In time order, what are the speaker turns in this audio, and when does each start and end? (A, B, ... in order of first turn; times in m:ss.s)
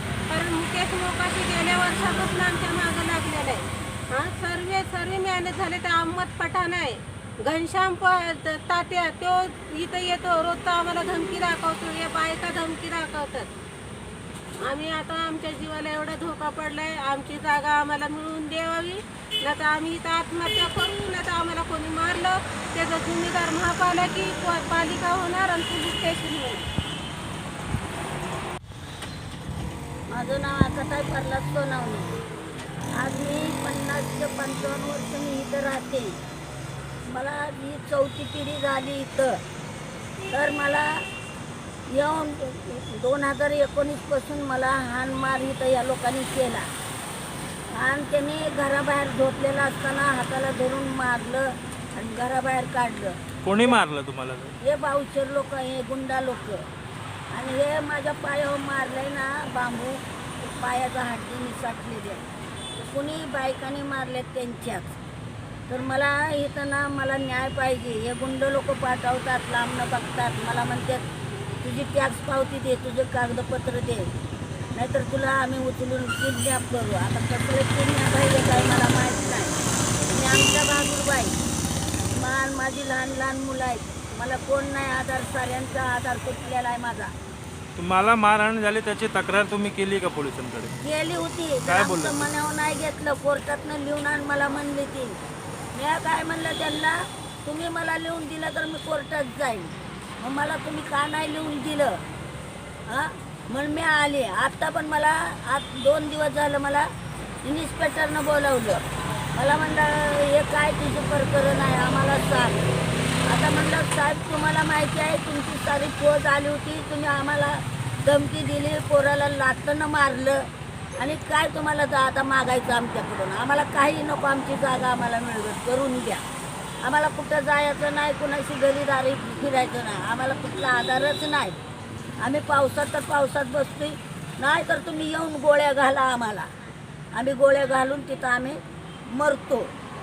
0:00.3-0:13.5 A
0:14.6-0:26.7 A
0:30.1-0:32.1 B
0:33.0-0:36.2 B
0:37.1-0:39.4 B
0:40.3-0:41.0 B
0:41.9-0:46.7 B
0:47.7-0:53.8 B
0:53.4-0:54.6 C
0:54.6-0:56.6 B
0:57.3-1:02.2 B
1:02.8-1:05.0 B
1:05.7-1:11.0 B
1:11.6-1:14.1 B
1:14.8-1:19.6 B
1:20.1-1:21.4 B
1:22.2-1:27.1 B
1:27.8-1:30.7 C
1:30.8-1:35.2 B
1:31.7-1:32.3 C
1:35.7-1:42.0 B
1:42.9-1:46.9 B
1:47.4-1:48.8 B
1:49.4-1:52.6 B
1:53.3-2:00.4 B
2:01.0-2:06.2 B
2:06.8-2:11.6 B
2:12.2-2:16.5 B
2:17.1-2:19.7 B